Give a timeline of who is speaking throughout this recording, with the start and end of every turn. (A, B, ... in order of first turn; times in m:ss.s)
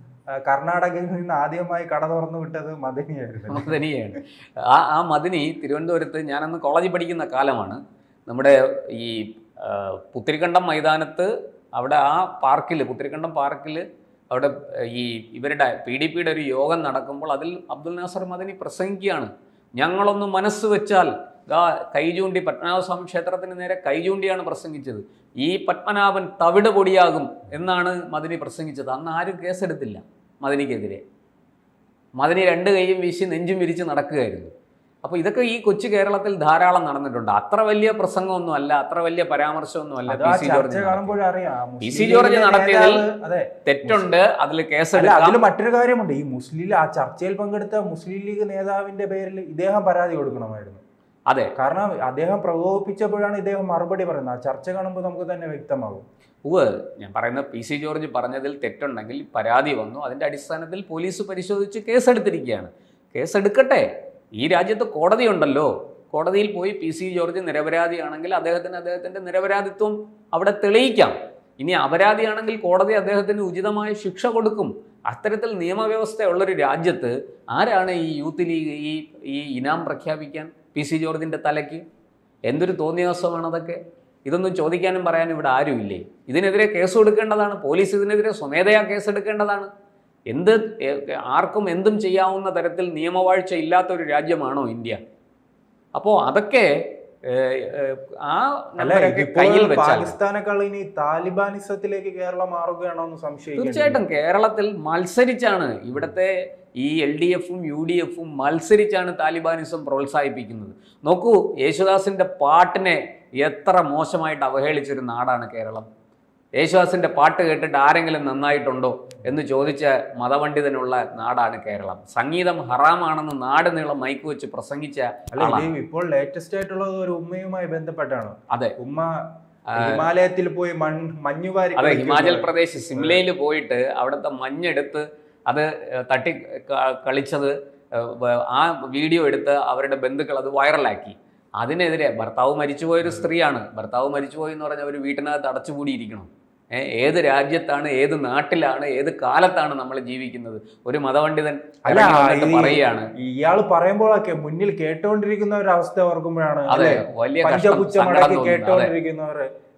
0:00.4-0:03.7 A
0:03.5-0:31.0 B
0:32.2-0:34.5 B
0:35.0-0:41.2 B
0:40.1-0:44.1 A
0:41.8-0:43.1 B
0:43.7-0:45.4 B
0:45.0-0:50.8 A
0:51.3-0:51.5 B
0:51.6-0:56.0 A
0:56.4-1:03.9 B
1:04.4-1:21.8 B
1:22.5-1:29.7 B
1:30.3-1:35.0 B
1:36.0-1:36.7 B
1:37.3-1:40.2 B
1:38.8-1:44.0 A
1:43.6-1:55.9 B
1:56.6-2:05.7 B
2:05.3-2:09.2 A
2:09.7-2:12.5 A
2:09.8-2:10.1 B
2:11.8-2:33.1 B
2:31.9-2:39.5 A
2:36.7-2:38.9 B